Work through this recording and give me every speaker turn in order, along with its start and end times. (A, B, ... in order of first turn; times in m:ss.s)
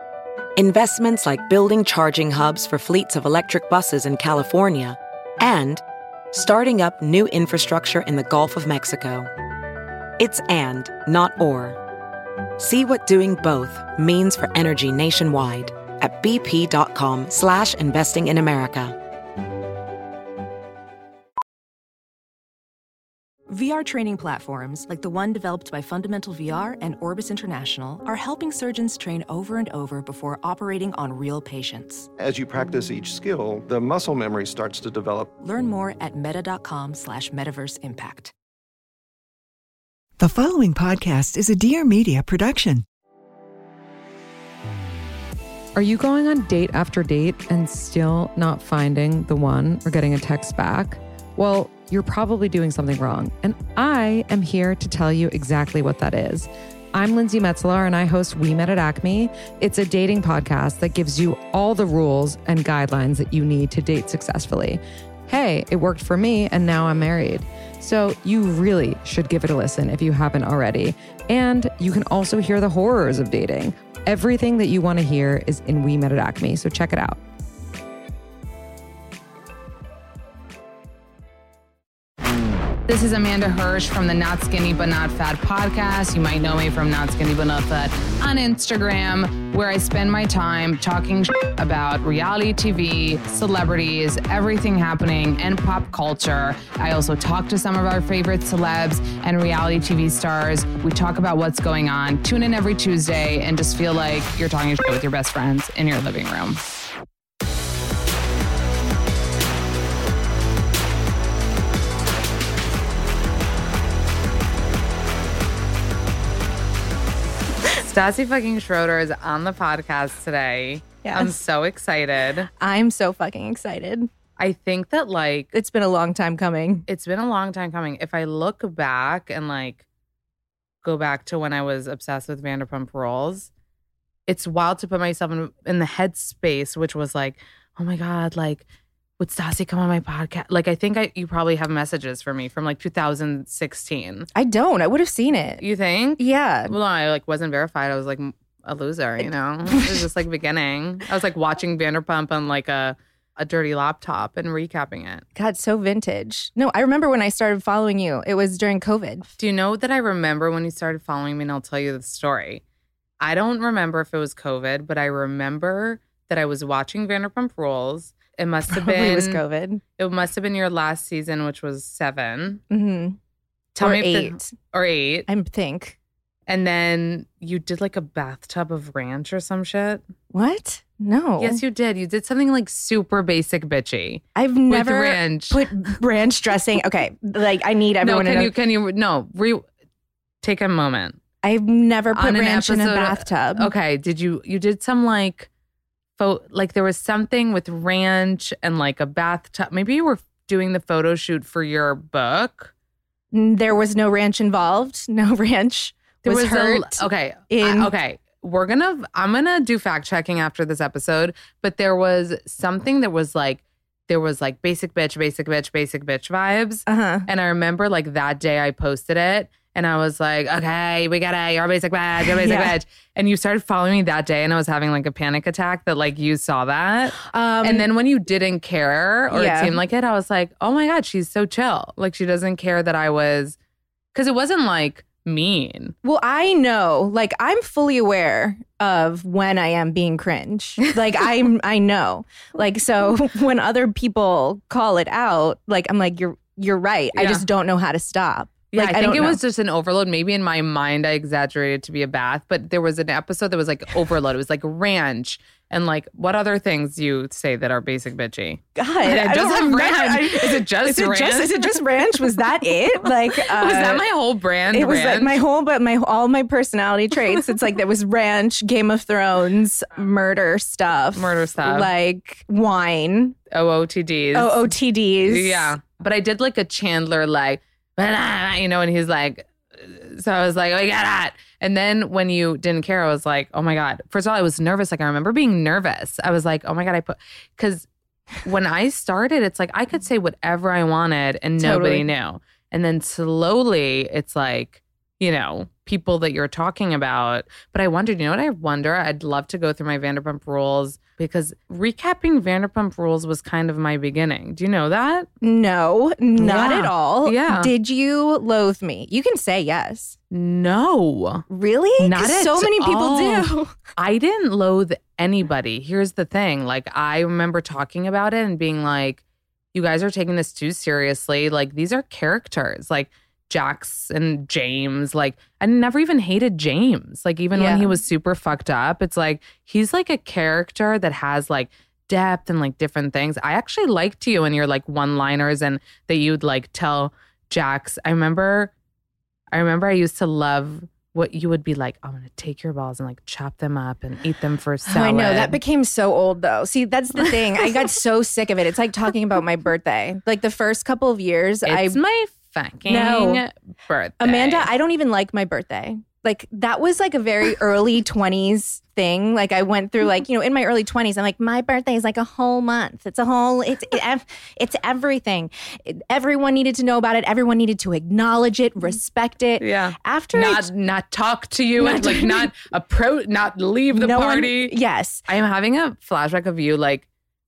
0:00.6-0:09.3 A
0:10.2-0:11.8 A
0:12.6-0:19.0 A
0:23.5-0:32.1 B
0:32.2-0:35.3 C
0:35.4-0:38.3 B
0:40.2-0:42.8 D
0:45.7-1:17.2 E
1:22.9-1:46.6 F
1:57.8-2:02.5 F
2:01.0-2:01.4 G
2:02.6-2:04.1 G
2:04.4-2:05.5 F
2:05.5-2:06.8 G
2:06.9-2:09.8 F
2:10.8-2:13.5 F
2:14.3-2:18.6 F
2:19.2-2:24.3 F
2:24.3-2:25.6 G
2:25.6-2:35.2 F
2:26.2-2:26.7 G
2:29.7-2:30.0 G
2:35.3-2:39.3 G
2:39.4-2:42.6 F
2:43.2-2:49.4 F
2:48.7-2:49.8 G
2:50.0-2:52.6 F
2:52.7-2:53.2 G
2:53.8-2:55.3 F
2:53.8-2:54.5 G
2:55.3-2:56.0 G
2:56.5-3:00.0 F
3:00.3-3:01.6 G
3:01.4-3:05.7 F
3:04.4-3:08.5 G
3:08.0-3:09.6 F
3:10.4-3:11.2 F
3:11.4-3:13.7 G
3:12.1-3:15.5 F
3:16.2-3:22.7 F
3:23.3-3:27.9 G
3:26.2-3:53.6 F
3:36.9-3:37.3 G
3:42.2-3:42.8 G
3:47.2-3:47.9 G
3:49.3-3:49.8 G
3:54.1-3:55.9 F
3:56.0-4:09.4 G
4:07.2-4:07.4 F
4:08.7-4:22.0 F
4:18.8-4:24.0 G
4:23.3-4:25.4 F
4:24.7-4:33.4 G
4:31.1-4:31.9 F
4:33.5-4:47.9 F
4:34.3-4:35.8 G
4:48.4-5:05.3 F
4:51.6-4:52.0 G
5:05.4-5:10.2 G
5:06.4-5:07.7 F
5:10.3-5:11.4 F
5:11.5-5:13.7 G
5:12.0-5:19.2 F
5:19.7-5:38.7 F
5:27.5-5:27.9 G
5:39.5-5:45.6 F
5:44.9-5:52.0 G
5:51.6-5:54.7 F
5:52.9-5:53.4 G
5:54.2-6:10.7 G
6:09.6-6:14.8 F
6:11.8-6:12.5 G
6:13.9-6:15.2 G
6:15.3-6:17.1 F